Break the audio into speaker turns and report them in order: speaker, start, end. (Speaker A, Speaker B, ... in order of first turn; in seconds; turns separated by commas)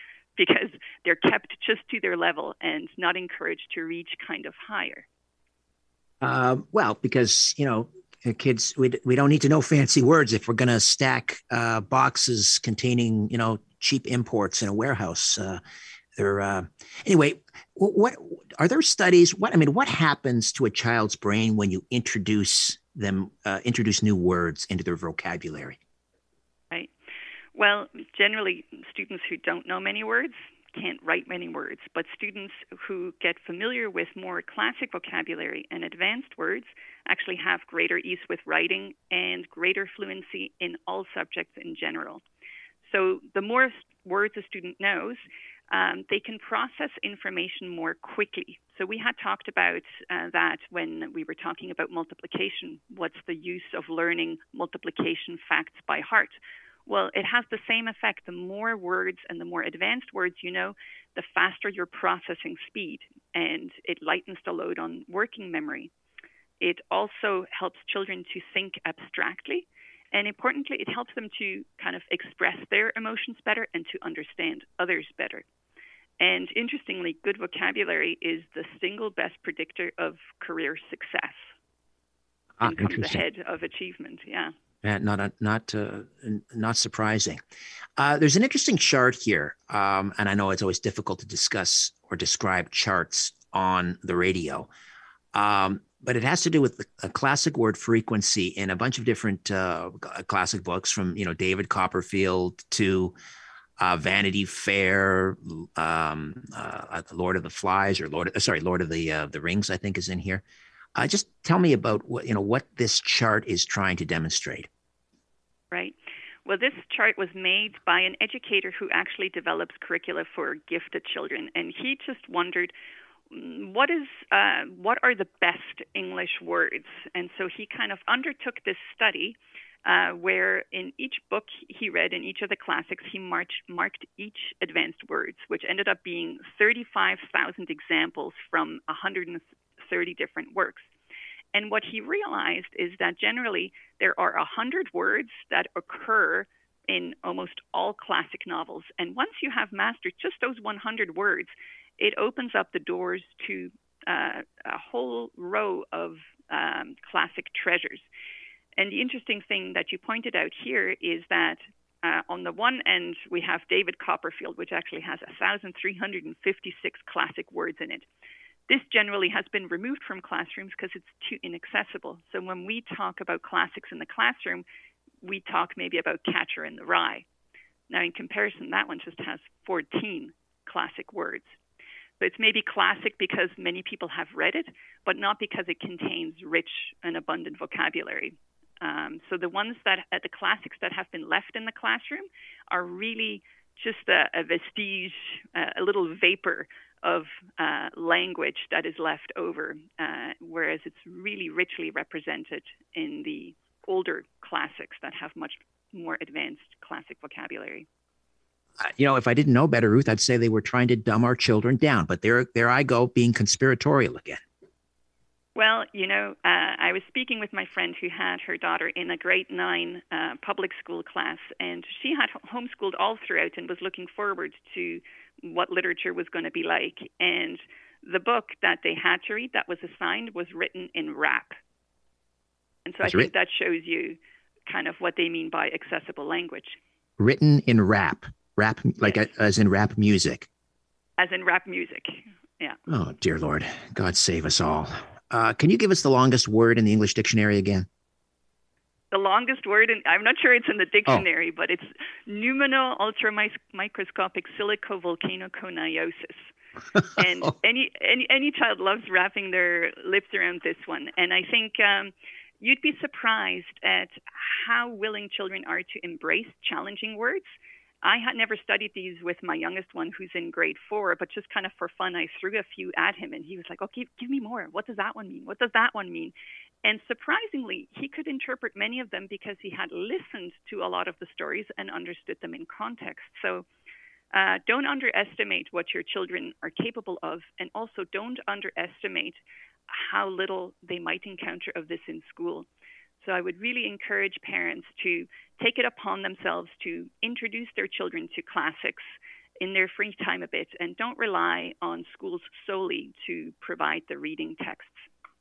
Speaker A: 0.4-5.0, Speaker B: 6.2-15.6, Speaker B: 16.2-25.8, Speaker A: 27.5-42.2, Speaker A: 42.9-56.3, Speaker A: 56.9-65.9, Speaker A: 66.6-75.4, Speaker A: 76.2-81.5, Speaker B: 82.6-83.2, Speaker A: 82.6-84.5, Speaker B: 84.8-87.4, Speaker B: 88.0-94.7, Speaker B: 95.3-103.1, Speaker B: 103.8-110.4, Speaker B: 111.0-114.7, Speaker A: 115.7-122.7, Speaker A: 123.3-140.8, Speaker A: 141.5-158.1, Speaker A: 158.8-168.1, Speaker A: 168.7-174.6, Speaker A: 175.2-177.2, Speaker A: 177.9-181.5, Speaker A: 182.2-207.9, Speaker B: 208.8-214.4, Speaker A: 215.6-231.6, Speaker A: 232.8-236.8, Speaker B: 233.0-233.3, Speaker B: 237.2-240.5, Speaker A: 241.2-242.8, Speaker B: 242.9-247.9, Speaker A: 249.1-256.5, Speaker A: 257.1-267.5, Speaker A: 268.0-276.3, Speaker A: 276.8-283.6, Speaker A: 284.3-292.7, Speaker A: 293.2-305.0